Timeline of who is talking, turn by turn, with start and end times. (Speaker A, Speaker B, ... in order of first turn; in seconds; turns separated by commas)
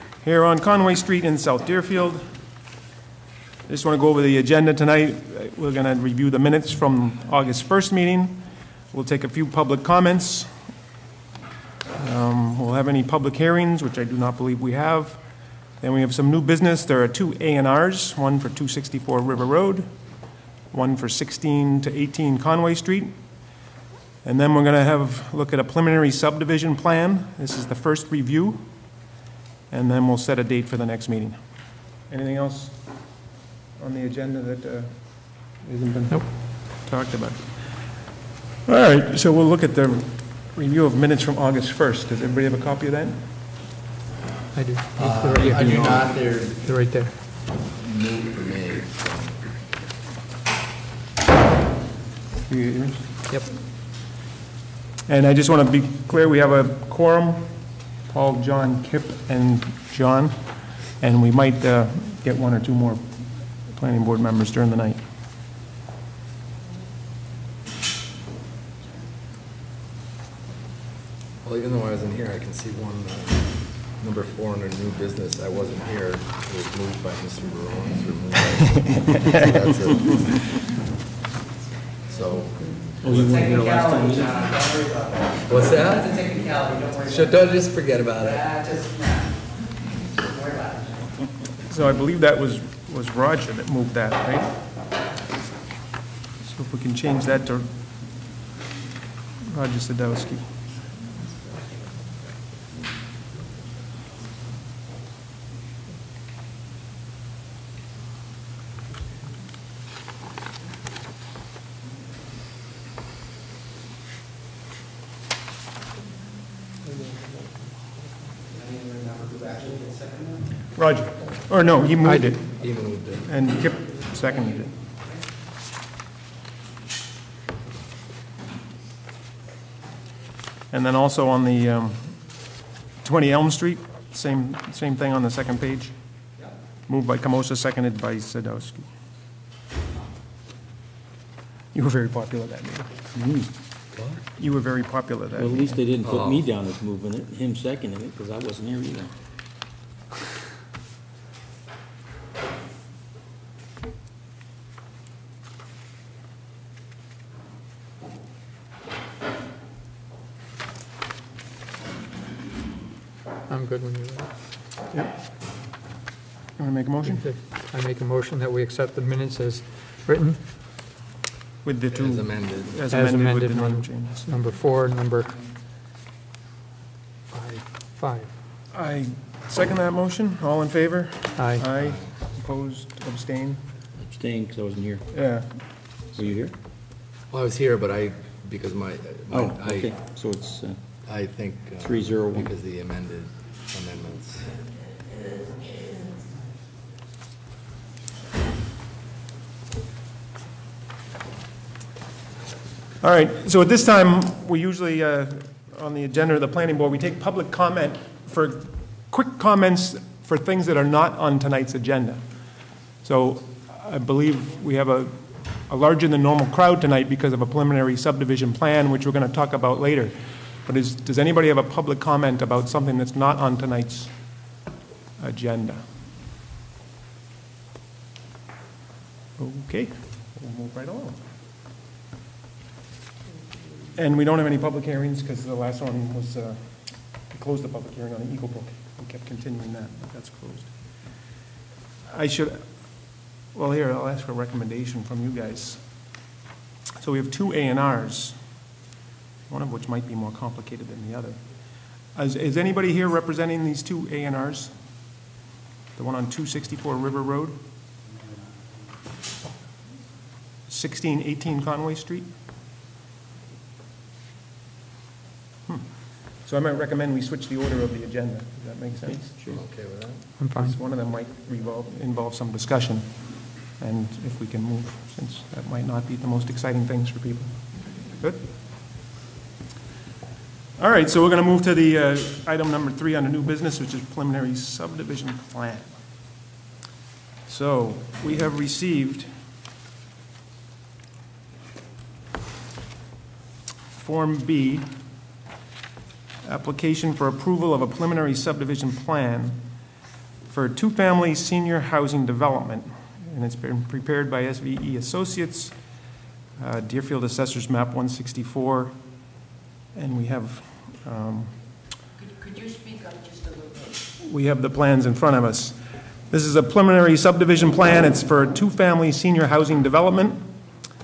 Speaker A: 0.2-2.2, Speaker A: 3.7-10.5, Speaker A: 12.0-15.2, Speaker A: 15.8-19.9, Speaker A: 20.7-23.1, Speaker A: 24.2-28.7, Speaker A: 29.7-31.4, Speaker A: 32.1-32.9, Speaker A: 33.8-37.6, Speaker A: 38.7-43.2, Speaker B: 44.5-47.2, Speaker C: 45.0-46.9, Speaker C: 47.6-49.4, Speaker A: 52.5-53.0, Speaker A: 55.1-63.1, Speaker A: 63.6-65.0, Speaker C: 71.4-80.3, Speaker C: 82.1-83.1, Speaker D: 83.0-84.3, Speaker E: 83.1-87.4, Speaker C: 85.5-86.1, Speaker C: 87.0-88.5, Speaker E: 88.2-89.3, Speaker E: 90.2-91.1, Speaker A: 91.7-94.5, Speaker A: 96.4-97.7, Speaker A: 99.5-100.5, Speaker E: 118.5-120.5, Speaker A: 120.8-124.7, Speaker B: 122.0-122.4, Speaker C: 122.5-123.3, Speaker A: 130.7-132.2, Speaker A: 133.0-135.9, Speaker A: 136.9-138.9, Speaker A: 141.7-142.9, Speaker D: 143.2-143.5, Speaker A: 144.4-145.5, Speaker D: 145.3-149.1, Speaker C: 146.0-146.4, Speaker B: 163.5-164.3, Speaker A: 166.6-167.2, Speaker B: 167.1-170.4, Speaker A: 171.7-174.3, Speaker C: 171.9-172.8, Speaker B: 172.9-175.3, Speaker B: 177.3-178.3, Speaker A: 178.7-183.6, Speaker B: 181.4-181.7, Speaker C: 181.7-182.1, Speaker D: 184.0-185.1, Speaker A: 185.1-185.5, Speaker D: 186.2-186.5, Speaker C: 187.3-190.1, Speaker D: 189.3-190.8, Speaker C: 191.1-194.4, Speaker D: 191.8-192.5, Speaker A: 203.0-212.2, Speaker A: 213.0-220.1, Speaker A: 220.7-224.1, Speaker A: 225.2-225.8, Speaker A: 229.4-231.2, Speaker A: 234.0-240.8, Speaker A: 242.1-242.9, Speaker A: 243.5-245.8, Speaker A: 247.0-248.4, Speaker A: 249.5-251.4, Speaker A: 252.2-254.7, Speaker A: 256.0-257.6, Speaker A: 260.7-262.3, Speaker A: 266.4-269.2, Speaker D: 269.1-269.6, Speaker C: 269.5-270.2, Speaker B: 270.4-270.8, Speaker A: 270.6-273.1, Speaker A: 273.7-278.4, Speaker A: 280.8-286.0, Speaker A: 287.5-289.3, Speaker A: 294.0-294.9, Speaker A: 296.4-299.6, Speaker A: 300.5-305.8, Speaker A: 306.6-309.0, Speaker A: 309.9-311.6, Speaker A: 314.2-315.8, Speaker A: 316.3-320.5